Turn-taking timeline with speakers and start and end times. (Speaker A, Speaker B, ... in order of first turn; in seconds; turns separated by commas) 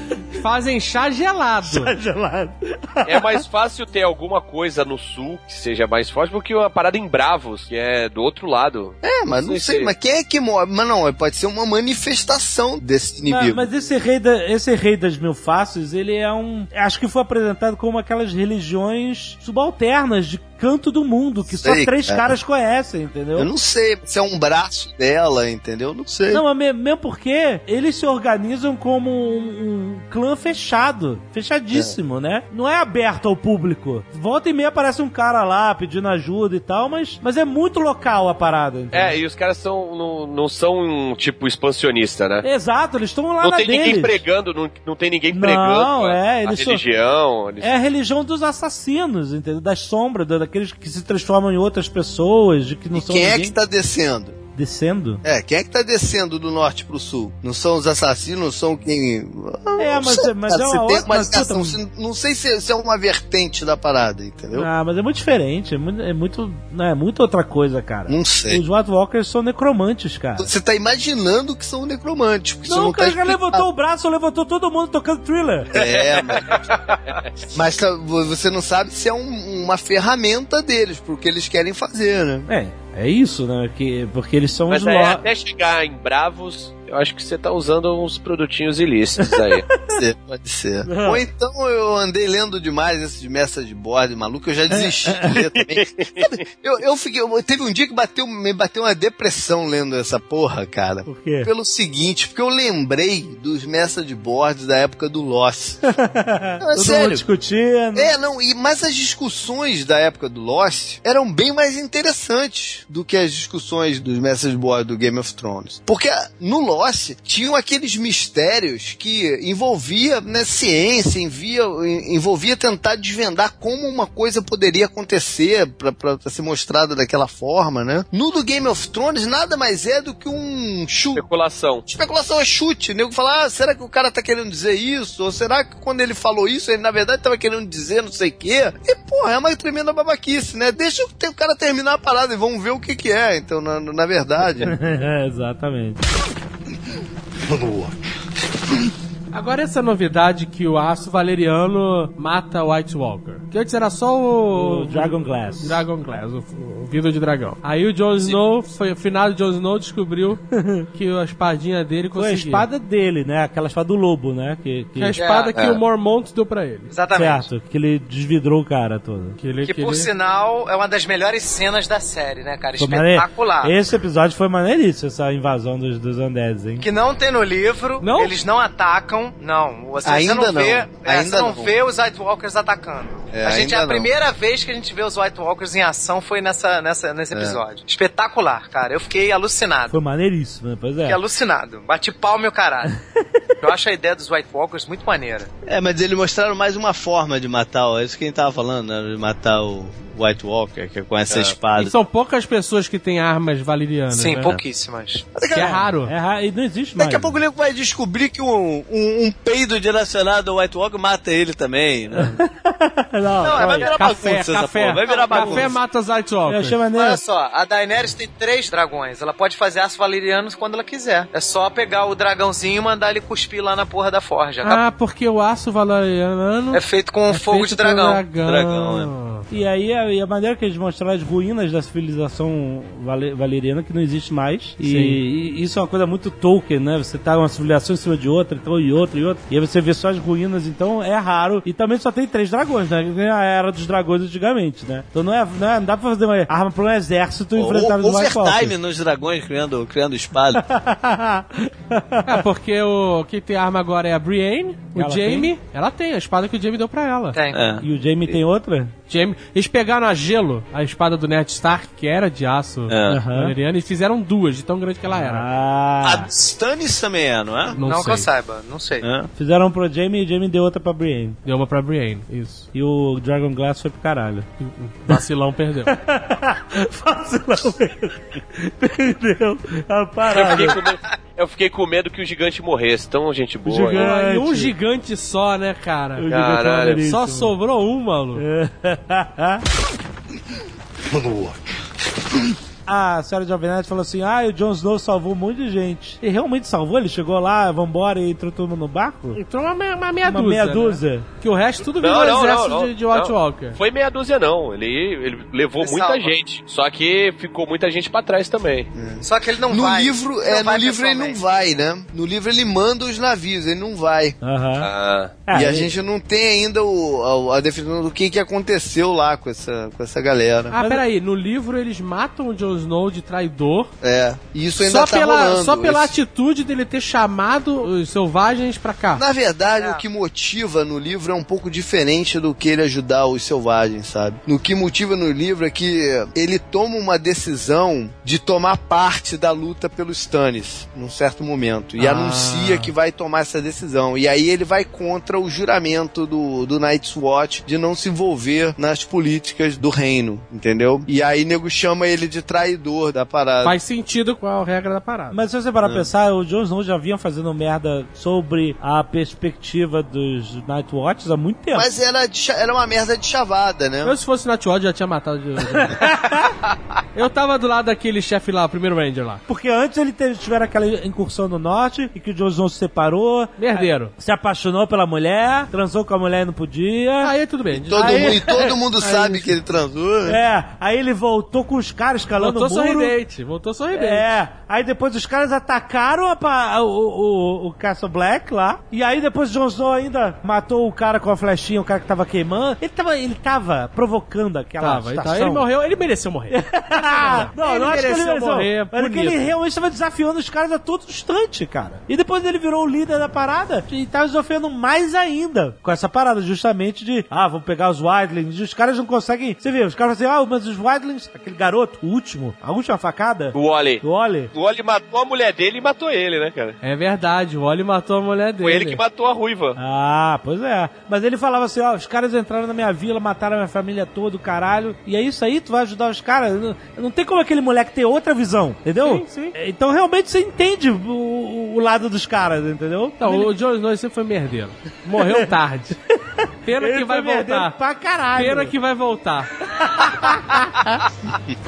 Speaker A: 0.3-1.9, Speaker B: 1.6-3.4, Speaker C: 3.0-9.9, Speaker D: 9.0-13.6, Speaker B: 13.3-23.5, Speaker D: 21.6-22.3, Speaker D: 23.4-26.4, Speaker B: 26.3-39.2, Speaker C: 38.9-42.5, Speaker B: 42.4-44.2, Speaker C: 43.4-47.7, Speaker B: 45.3-46.8, Speaker B: 47.6-53.6, Speaker D: 52.9-54.4, Speaker B: 54.6-55.2, Speaker D: 55.2-64.7, Speaker B: 59.8-61.8, Speaker B: 64.5-70.5, Speaker D: 68.1-68.6, Speaker D: 70.4-73.7, Speaker B: 72.7-75.7, Speaker D: 75.7-76.7, Speaker C: 75.7-77.3, Speaker D: 77.5-82.5, Speaker B: 82.5-85.2, Speaker C: 84.7-89.7, Speaker D: 89.9-105.8, Speaker B: 90.9-91.2, Speaker B: 94.7-95.4, Speaker C: 95.6-96.3, Speaker B: 101.1-101.5, Speaker B: 105.8-108.1, Speaker D: 106.6-107.2, Speaker D: 107.9-131.2, Speaker C: 131.2-131.8, Speaker D: 131.9-144.7, Speaker B: 144.6-146.0, Speaker A: 149.3-162.7, Speaker B: 154.5-155.8, Speaker B: 160.5-160.9, Speaker B: 162.2-165.2, Speaker A: 165.0-166.9, Speaker E: 165.2-165.6, Speaker C: 165.6-165.8, Speaker E: 166.9-167.5, Speaker B: 167.2-169.4, Speaker A: 169.4-170.1, Speaker E: 169.6-173.8, Speaker B: 172.8-176.9, Speaker E: 176.8-190.0, Speaker A: 178.0-178.3, Speaker D: 180.0-181.8, Speaker D: 183.3-184.1, Speaker D: 187.3-187.6, Speaker B: 189.9-191.2, Speaker E: 191.0-192.9, Speaker B: 193.1-193.4, Speaker E: 193.6-195.5, Speaker D: 195.7-201.9, Speaker C: 201.3-201.6, Speaker A: 201.8-204.6, Speaker E: 204.1-205.2, Speaker D: 205.3-205.8, Speaker A: 205.5-206.1, Speaker B: 205.6-207.4, Speaker D: 207.0-212.4, Speaker B: 212.2-213.9, Speaker E: 213.4-214.0, Speaker D: 213.5-215.7, Speaker A: 213.9-216.8, Speaker E: 215.0-215.7, Speaker B: 216.5-217.2, Speaker E: 216.9-224.8, Speaker A: 224.6-229.4, Speaker E: 226.7-228.2, Speaker D: 228.4-229.1, Speaker B: 229.5-248.7, Speaker A: 234.8-235.2, Speaker D: 247.6-250.6, Speaker B: 250.6-252.4, Speaker A: 252.3-257.4, Speaker B: 254.9-255.5, Speaker E: 257.3-257.7, Speaker D: 257.5-257.9, Speaker B: 257.8-258.9, Speaker A: 259.1-265.5, Speaker D: 262.9-263.2, Speaker B: 263.1-263.5, Speaker B: 265.1-266.3, Speaker D: 266.0-267.8, Speaker A: 267.7-268.3, Speaker E: 267.8-269.1, Speaker D: 269.0-269.3, Speaker B: 269.4-271.4, Speaker A: 271.4-272.7, Speaker B: 272.7-274.5, Speaker A: 274.6-275.9, Speaker B: 275.9-280.8, Speaker C: 280.3-284.0, Speaker A: 283.7-286.3, Speaker B: 283.7-284.7, Speaker B: 286.2-287.5, Speaker C: 286.3-287.0, Speaker A: 287.0-288.4, Speaker B: 288.4-289.6, Speaker B: 292.9-299.4, Speaker A: 299.3-303.8, Speaker B: 300.2-301.3, Speaker C: 302.0-308.9, Speaker E: 305.8-306.4, Speaker D: 308.9-314.4, Speaker E: 309.2-311.6, Speaker B: 314.4-314.9, Speaker C: 314.8-315.4, Speaker B: 315.5-315.9, Speaker D: 315.5-320.8, Speaker A: 320.7-323.9, Speaker B: 320.8-321.0, Speaker D: 324.0-326.1, Speaker A: 324.8-329.2, Speaker D: 329.2-353.8, Speaker E: 329.7-330.0, Speaker A: 342.0-342.9, Speaker A: 353.6-355.4, Speaker B: 355.3-361.9, Speaker D: 361.7-364.2, Speaker A: 364.0-366.1, Speaker B: 365.7-366.5, Speaker A: 367.1-369.4, Speaker B: 369.5-377.3, Speaker A: 373.6-374.1, Speaker A: 377.2-378.4, Speaker D: 377.7-380.4, Speaker B: 377.9-379.5, Speaker A: 379.0-379.4, Speaker B: 380.3-383.2, Speaker A: 382.4-384.4, Speaker B: 383.9-395.7, Speaker A: 394.8-399.5, Speaker B: 396.5-414.5, Speaker C: 413.5-416.8, Speaker A: 416.8-419.0, Speaker C: 418.6-419.8, Speaker B: 419.8-433.5, Speaker A: 429.0-429.6, Speaker A: 433.2-436.0, Speaker B: 435.2-435.5, Speaker B: 436.3-438.7, Speaker A: 436.6-437.8, Speaker A: 438.4-439.5, Speaker B: 439.7-441.0